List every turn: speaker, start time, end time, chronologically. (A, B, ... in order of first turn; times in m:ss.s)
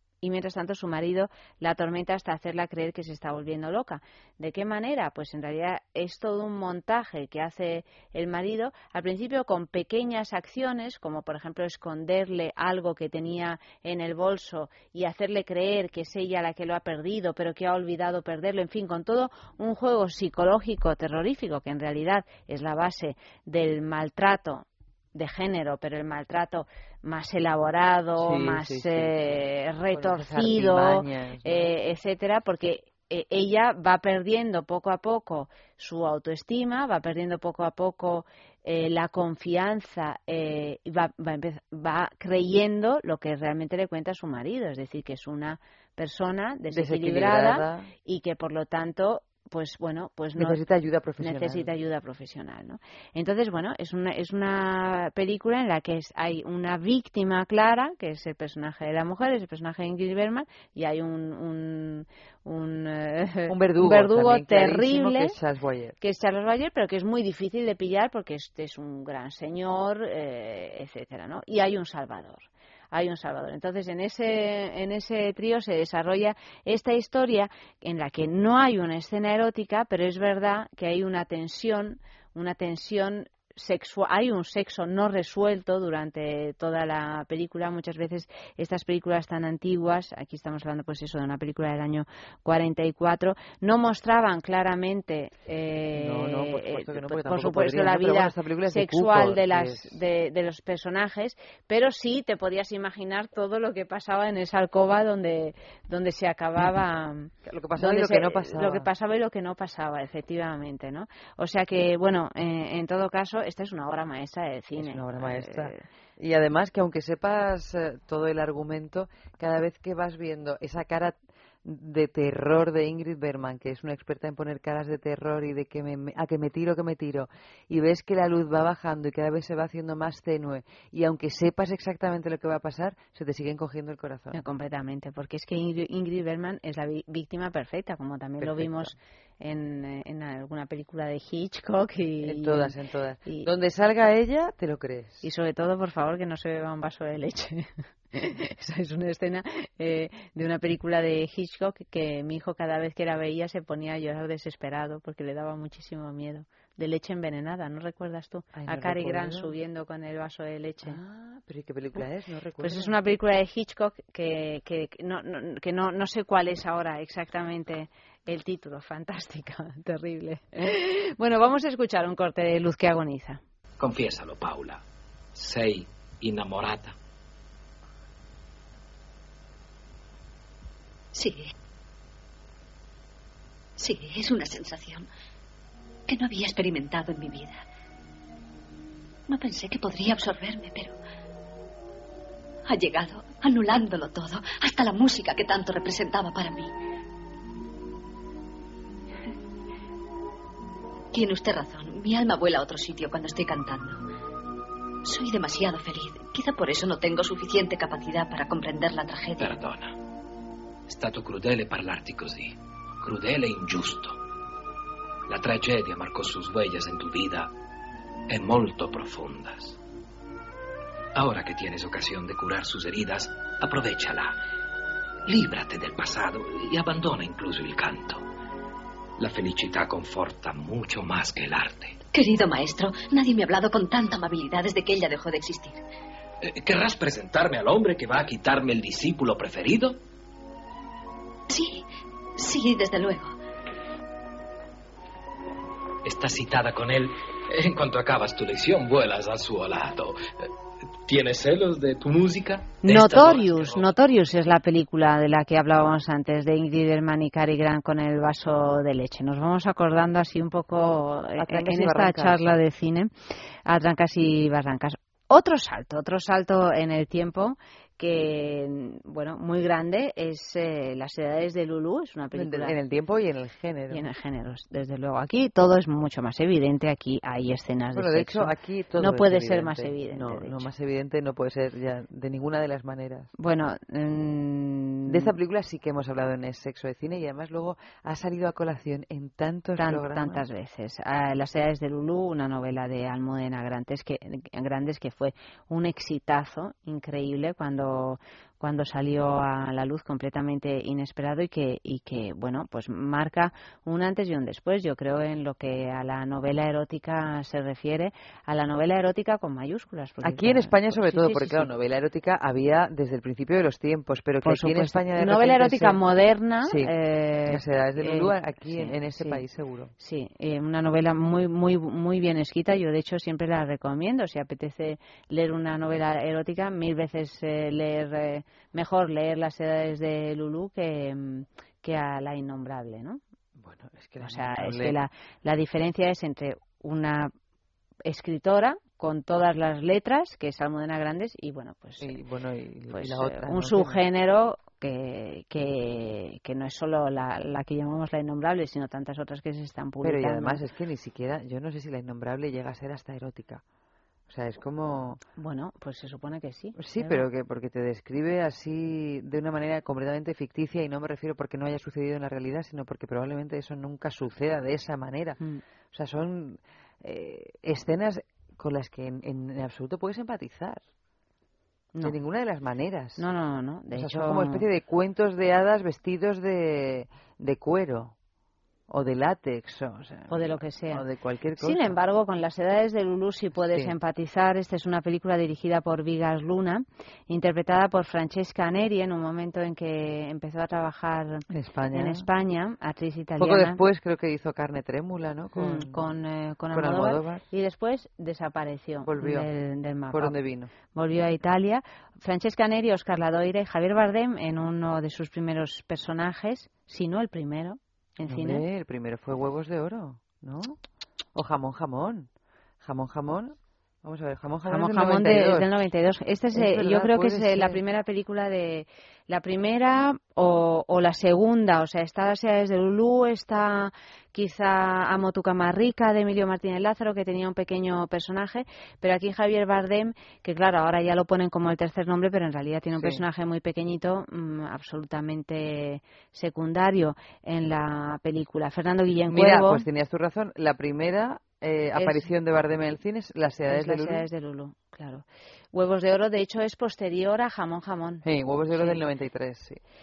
0:00.2-0:50.6 A
0:28.2-0:29.1 B
0:29.9-0:31.7 B
0:46.7-0:47.9 B
0:50.4-0:51.7 B
0:51.2-1:05.4 A
1:03.5-1:06.0 B
1:06.0-1:55.8 A
1:35.9-1:40.0 B
1:47.4-1:48.9 B
1:54.8-2:14.4 B
2:14.3-2:22.7 A
2:18.4-2:19.0 B
2:22.2-2:25.2 B
2:25.2-2:41.0 A
2:38.5-2:39.6 B
2:40.8-2:43.0 B
2:42.6-2:53.4 A
2:53.8-2:54.8 C
2:55.4-2:57.0 C
3:01.1-3:01.5 D
3:03.8-3:05.1 D
3:06.1-3:07.6 D
3:09.3-3:11.0 D
3:12.7-3:16.7 D
3:21.1-3:24.0 D
3:25.0-3:29.6 D
3:29.4-3:30.0 C
3:30.9-3:34.2 C
3:35.3-3:37.5 C
3:38.3-3:39.8 C
3:41.2-3:44.4 C
3:45.3-3:48.2 C
3:49.2-3:52.0 C
3:52.1-3:55.8 D
3:56.4-4:00.0 C
4:01.5-4:03.4 D
4:06.0-4:10.2 C
4:11.1-4:13.9 C
4:12.8-4:23.1 A
4:21.4-4:22.6 B
4:23.7-4:32.8 A
4:32.3-4:34.0 B
4:33.9-4:40.7 A
4:37.9-4:43.3 B
4:43.4-4:45.3 A
4:45.1-4:50.4 B
4:49.8-5:11.7 A
5:10.2-5:16.0 B
5:14.4-5:19.4 A
5:16.6-5:16.9 B
5:17.5-5:19.9 B
5:20.0-5:33.2 A
5:33.6-5:35.0 B
5:34.2-5:37.3 A
5:38.1-5:42.2 A
5:42.0-5:44.0 B
5:42.9-5:50.6 A
5:50.0-5:53.6 B
5:54.3-5:55.2 B
5:55.4-5:57.2 A
5:56.8-6:05.4 B
6:05.9-6:10.8 B
6:12.0-6:13.2 B
6:13.2-6:14.6 A
6:13.9-6:18.1 B
6:18.9-6:21.9 B
6:20.3-6:21.0 A
6:21.6-6:33.8 A
6:31.5-6:32.3 B
6:33.4-6:36.0 B
6:35.6-6:40.4 A
6:36.7-6:37.4 B
6:39.0-6:39.5 B
6:40.1-6:40.7 B
6:40.9-6:48.6 A
6:48.3-6:50.8 B
6:51.4-6:52.3 B
6:52.8-6:55.7 B
6:54.7-7:19.8 A
6:56.5-6:57.8 B
7:13.0-7:13.2 B
7:19.3-7:24.2 B
7:22.0-7:22.2 A
7:23.7-7:29.0 A
7:28.2-7:29.8 B